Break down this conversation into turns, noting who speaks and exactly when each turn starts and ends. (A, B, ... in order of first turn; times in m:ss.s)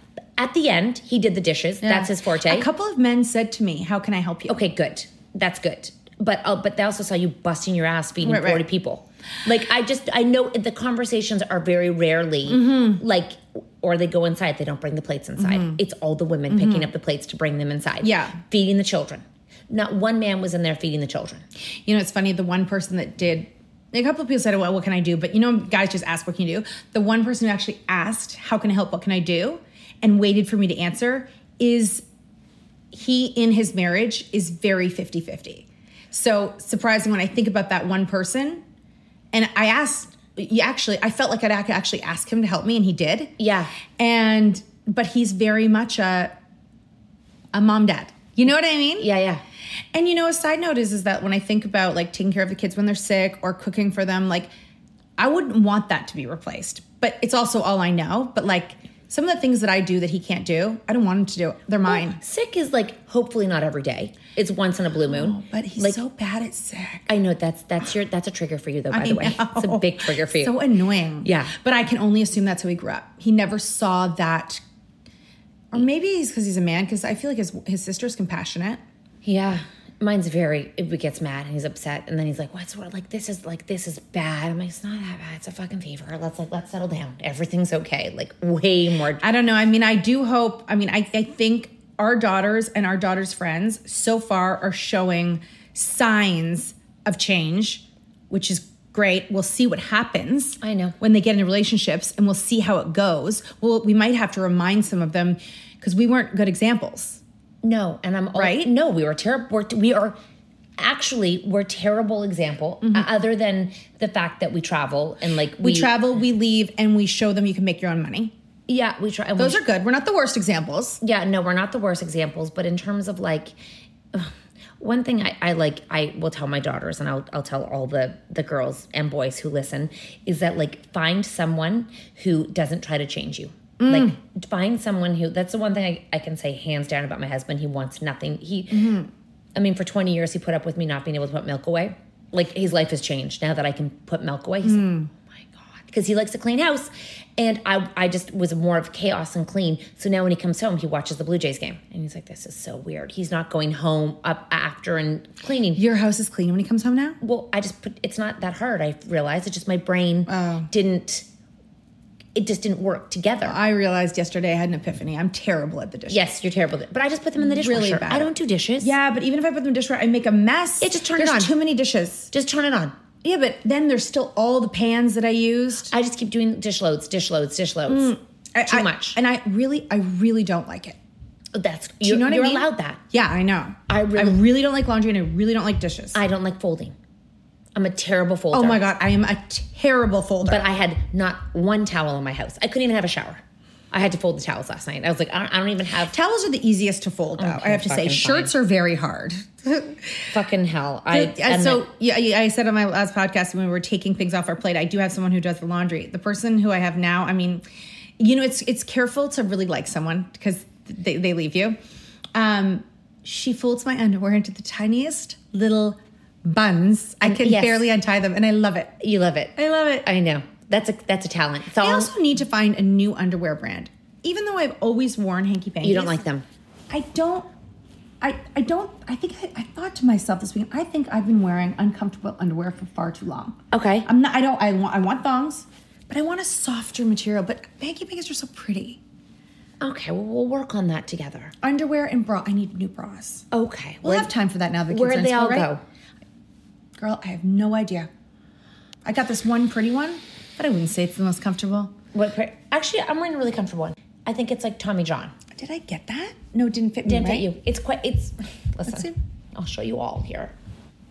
0:00.4-0:02.7 A
0:01.8-0:04.6 B
0:04.5-0:21.4 A
0:08.2-0:08.6 B
0:12.5-0:13.0 B
0:15.4-0:15.8 B
0:16.5-0:16.9 B
0:18.0-0:18.4 B
0:21.9-0:32.0 B
0:32.9-0:38.6 B
0:39.3-0:43.3 B
0:43.4-0:43.7 A
0:44.0-0:46.3 B
0:47.5-0:49.1 B
0:49.0-0:49.4 A
0:49.9-0:54.5 B
0:55.2-1:02.2 B
1:01.9-1:06.0 A
1:05.1-1:07.1 B
1:07.1-1:10.6 A
1:08.9-1:14.6 B
1:11.2-1:11.5 A
1:15.7-1:18.8 B
1:19.2-1:29.2 A
1:29.2-1:47.2 B
1:40.6-1:41.0 A
1:47.6-1:50.2 A
1:48.4-1:48.7 B
1:50.8-1:55.9 A
1:55.6-1:58.3 B
1:58.7-1:59.6 A
1:59.4-2:01.0 B
2:01.0-2:03.5 A
2:04.1-2:18.9 A
2:13.8-2:14.2 B
2:18.7-2:19.1 B
2:19.6-2:24.9 A
2:24.6-2:25.1 B
2:25.9-2:35.8 A
2:35.8-2:37.2 B
2:37.2-2:41.3 A
2:40.3-2:40.7 B
2:42.4-2:43.6 A
2:43.4-2:46.2 B
2:46.1-2:48.9 A
2:47.4-2:52.3 B
2:50.8-2:51.5 A
2:52.3-2:53.0 A
2:53.2-2:55.9 B
2:55.9-2:58.2 A
2:57.9-3:01.0 B
2:58.7-2:59.2 A
3:01.5-3:03.0 A
3:02.0-3:06.2 B
3:03.9-3:04.4 A
3:06.1-3:07.0 A
3:07.8-3:08.8 A
3:08.5-3:10.6 B
3:10.4-3:16.1 A
3:16.1-3:20.3 B
3:17.4-3:18.5 A
3:20.3-3:21.9 A
3:21.1-3:27.6 B
3:28.2-3:31.8 B
3:32.4-3:38.9 B
3:37.2-3:37.9 A
3:39.0-3:42.1 A
3:39.6-3:40.1 B
3:41.8-3:46.2 B
3:45.8-3:46.4 A
3:46.9-3:47.5 B
3:48.2-3:59.0 B
3:53.7-3:54.1 A
3:59.8-4:01.5 A
4:01.6-4:03.5 B
4:03.5-4:04.3 A
4:04.0-4:05.7 B
4:04.9-4:05.8 A
4:07.0-4:08.1 B
4:09.0-4:11.9 B
4:12.1-4:15.3 A
4:15.6-4:17.5 B
4:17.0-4:20.5 A
4:18.9-4:19.2 B